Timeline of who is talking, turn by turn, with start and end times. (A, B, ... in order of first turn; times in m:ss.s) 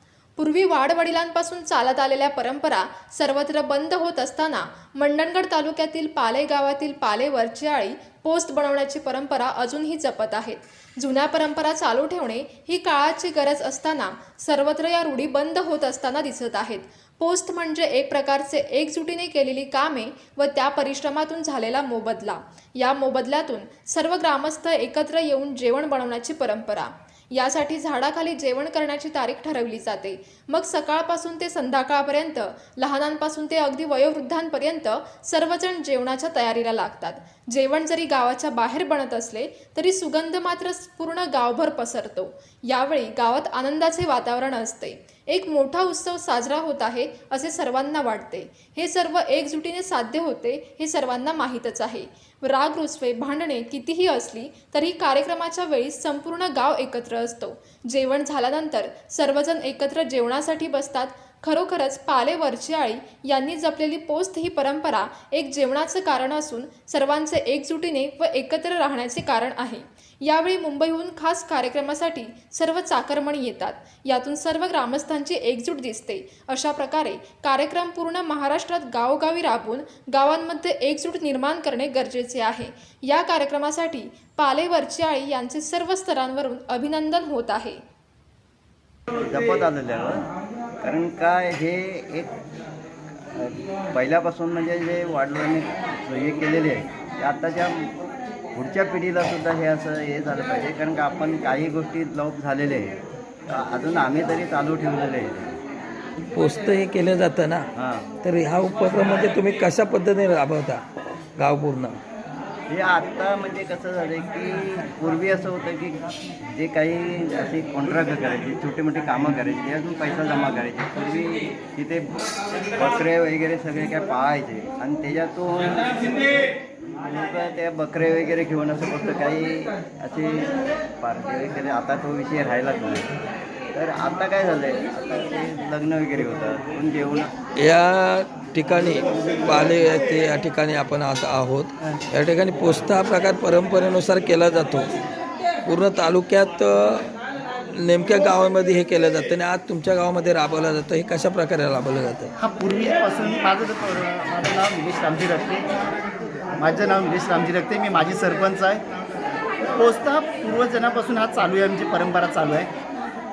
0:00.4-1:27.8 A
1:29.2-1:30.2 B
1:30.8-1:32.3 B
1:33.4-1:37.9 B
1:38.6-1:45.5 B
1:46.4-1:47.7 C
1:47.8-1:48.1 B
1:48.2-1:50.8 C
1:51.4-1:52.0 C
1:52.7-2:02.2 B
2:02.8-2:06.1 B
2:07.1-2:10.5 B
2:11.0-2:13.1 B
2:13.7-2:17.3 B
2:17.6-2:24.9 C
2:25.7-2:27.1 C
2:27.8-2:32.3 C
2:32.4-2:35.6 D
2:36.6-2:38.8 D
2:39.8-2:42.7 D